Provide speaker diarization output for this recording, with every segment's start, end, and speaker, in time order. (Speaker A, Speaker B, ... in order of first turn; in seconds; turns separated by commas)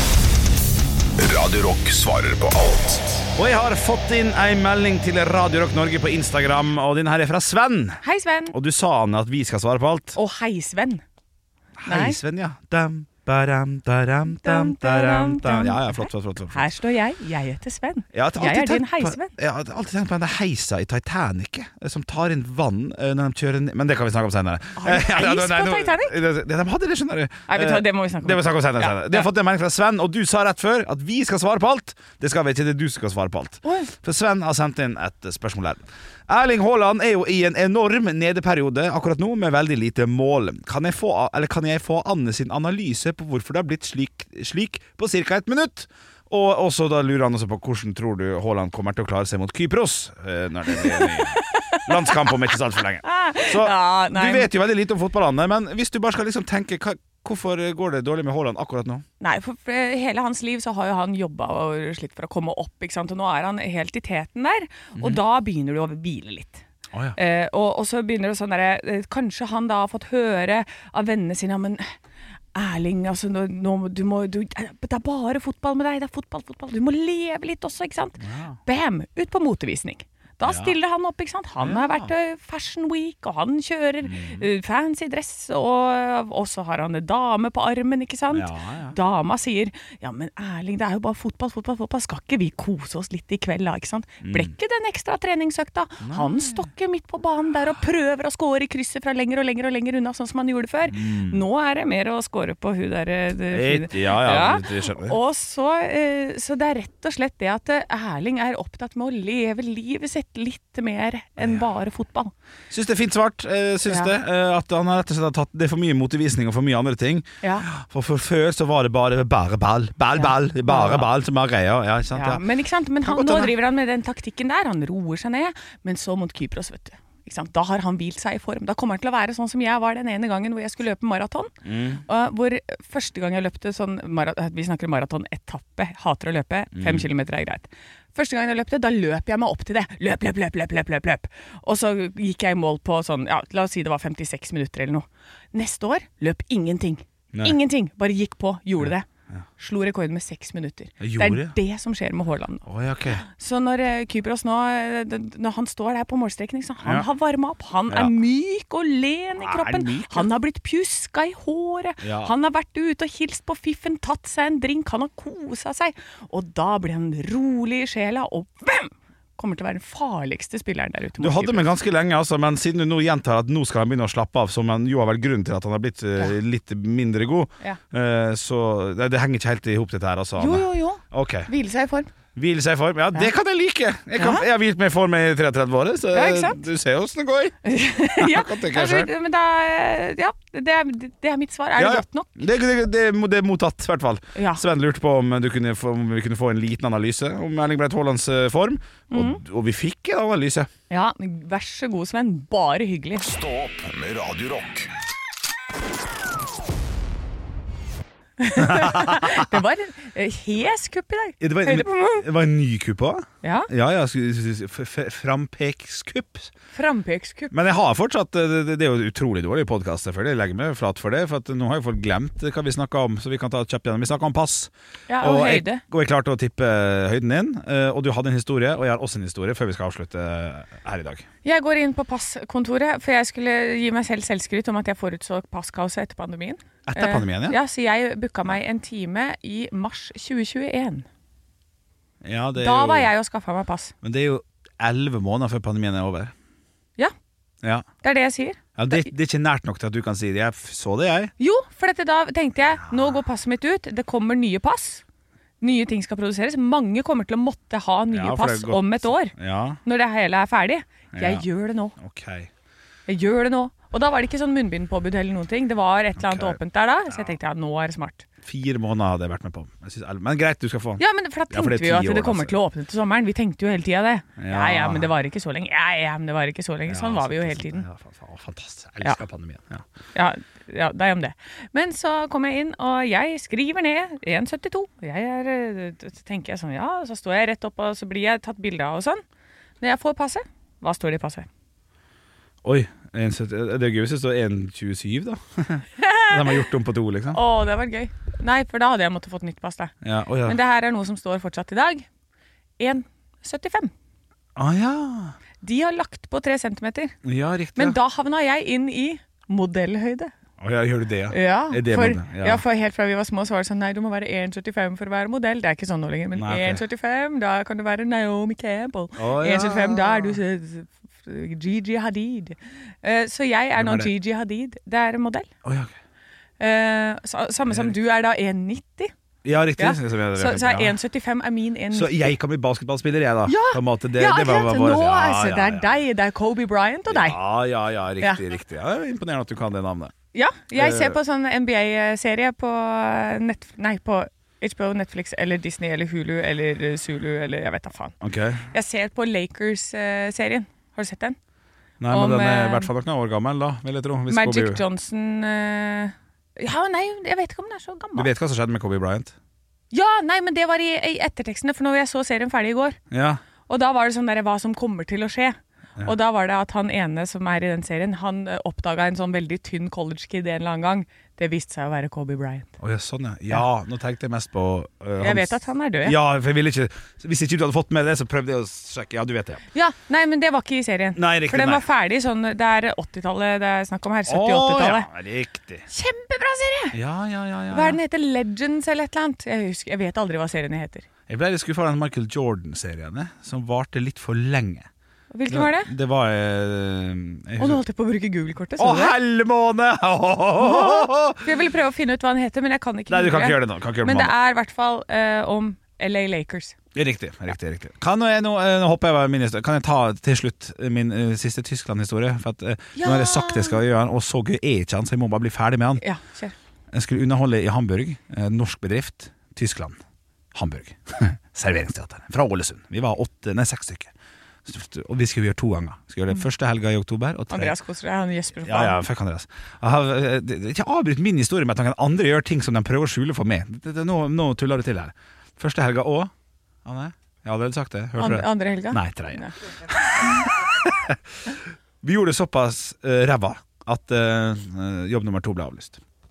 Speaker A: 1.2-3.3, Speaker B: 3.4-10.2, Speaker C: 8.0-8.6, Speaker C: 10.2-11.0, Speaker B: 11.8-16.7, Speaker C: 11.9-12.2, Speaker C: 14.3-19.3, Speaker B: 18.1-59.0, Speaker C: 24.8-26.2, Speaker C: 27.5-29.3, Speaker C: 33.6-33.9, Speaker C: 50.8-52.3, Speaker C: 53.0-54.5, Speaker C: 59.2-66.6, Speaker C: 67.2-71.9, Speaker C: 72.5-112.3, Speaker B: 78.2-78.6, Speaker B: 80.4-80.8, Speaker B: 81.6-82.1, Speaker B: 84.0-84.5, Speaker B: 88.3-89.0, Speaker B: 94.2-94.5, Speaker B: 96.0-96.7, Speaker B: 100.9-101.4, Speaker B: 103.5-105.2, Speaker B: 111.4-111.7, Speaker B: 112.7-122.4, Speaker C: 113.9-114.1, Speaker C: 117.4-117.7, Speaker C: 120.1-121.1, Speaker C: 122.1-131.5, Speaker B: 123.0-123.5, Speaker B: 131.7-132.0, Speaker C: 132.1-149.1, Speaker B: 136.8-137.1, Speaker B: 148.8-149.4, Speaker C: 149.6-152.7, Speaker B: 151.0-151.5, Speaker B: 152.7-153.2, Speaker C: 153.2-171.7, Speaker B: 159.4-160.3, Speaker B: 162.0-162.3, Speaker B: 171.2-181.5, Speaker C: 180.4-182.1, Speaker B: 182.4-187.6, Speaker C: 184.2-184.5, Speaker C: 186.1-186.6, Speaker C: 187.7-192.3, Speaker B: 188.2-189.1, Speaker B: 191.8-200.7, Speaker C: 194.4-194.6, Speaker C: 199.1-199.4, Speaker C: 200.9-203.3, Speaker A: 203.2-204.9, Speaker C: 208.4-212.2, Speaker B: 208.6-209.6, Speaker B: 211.4-216.5, Speaker C: 213.4-213.7, Speaker C: 216.7-217.5, Speaker B: 217.5-224.7, Speaker C: 225.1-225.8, Speaker B: 225.2-231.3, Speaker C: 231.4-241.1, Speaker B: 236.9-237.6, Speaker B: 242.2-243.1, Speaker C: 242.6-243.9, Speaker B: 244.0-246.3, Speaker C: 248.0-249.1, Speaker B: 248.8-251.3, Speaker C: 251.4-255.0, Speaker B: 252.9-253.2, Speaker C: 255.6-259.3, Speaker B: 258.1-259.8, Speaker C: 259.9-261.9, Speaker B: 261.1-261.4, Speaker B: 262.0-262.5, Speaker C: 263.1-268.2, Speaker B: 266.2-267.4, Speaker B: 268.4-272.6, Speaker C: 271.0-277.9, Speaker B: 274.4-275.1, Speaker B: 276.9-279.8, Speaker C: 280.1-289.2, Speaker C: 289.8-291.5, Speaker B: 292.6-297.4, Speaker C: 296.0-296.6, Speaker C: 297.3-299.9, Speaker B: 300.0-300.6, Speaker C: 300.5-302.1, Speaker C: 302.8-303.9, Speaker B: 304.6-305.4, Speaker C: 305.6-307.1, Speaker B: 307.2-308.0, Speaker C: 307.8-310.3, Speaker B: 310.6-312.6, Speaker C: 311.3-325.5, Speaker B: 316.4-316.8, Speaker B: 319.2-320.4, Speaker B: 323.8-324.1, Speaker B: 325.6-325.9, Speaker C: 326.6-329.1, Speaker B: 327.7-327.9, Speaker B: 329.4-330.9, Speaker C: 329.8-332.3, Speaker B: 331.9-336.0, Speaker C: 333.5-337.4, Speaker B: 337.1-340.1, Speaker C: 340.3-348.1, Speaker B: 340.8-341.2, Speaker B: 348.2-348.6, Speaker C: 348.7-351.4, Speaker B: 352.0-354.8, Speaker C: 352.1-352.9, Speaker C: 354.3-358.3, Speaker B: 358.2-359.4, Speaker C: 359.9-363.0, Speaker B: 363.1-363.4, Speaker C: 363.7-372.7, Speaker B: 372.8-379.6, Speaker C: 375.2-376.2, Speaker C: 379.7-385.1, Speaker B: 381.2-381.8, Speaker B: 384.3-385.9, Speaker C: 385.9-387.0, Speaker B: 386.9-388.0, Speaker C: 387.7-391.1, Speaker B: 391.3-394.9, Speaker C: 395.3-395.9, Speaker B: 395.5-397.8, Speaker C: 397.6-399.1, Speaker B: 398.8-401.5, Speaker C: 400.6-406.8, Speaker B: 403.1-404.3, Speaker B: 406.9-416.0, Speaker C: 413.0-413.8, Speaker C: 416.0-416.6, Speaker B: 416.9-420.0, Speaker B: 420.5-424.1, Speaker B: 424.7-427.8, Speaker C: 427.5-429.0, Speaker B: 428.6-436.3, Speaker B: 436.9-446.0, Speaker C: 438.2-439.5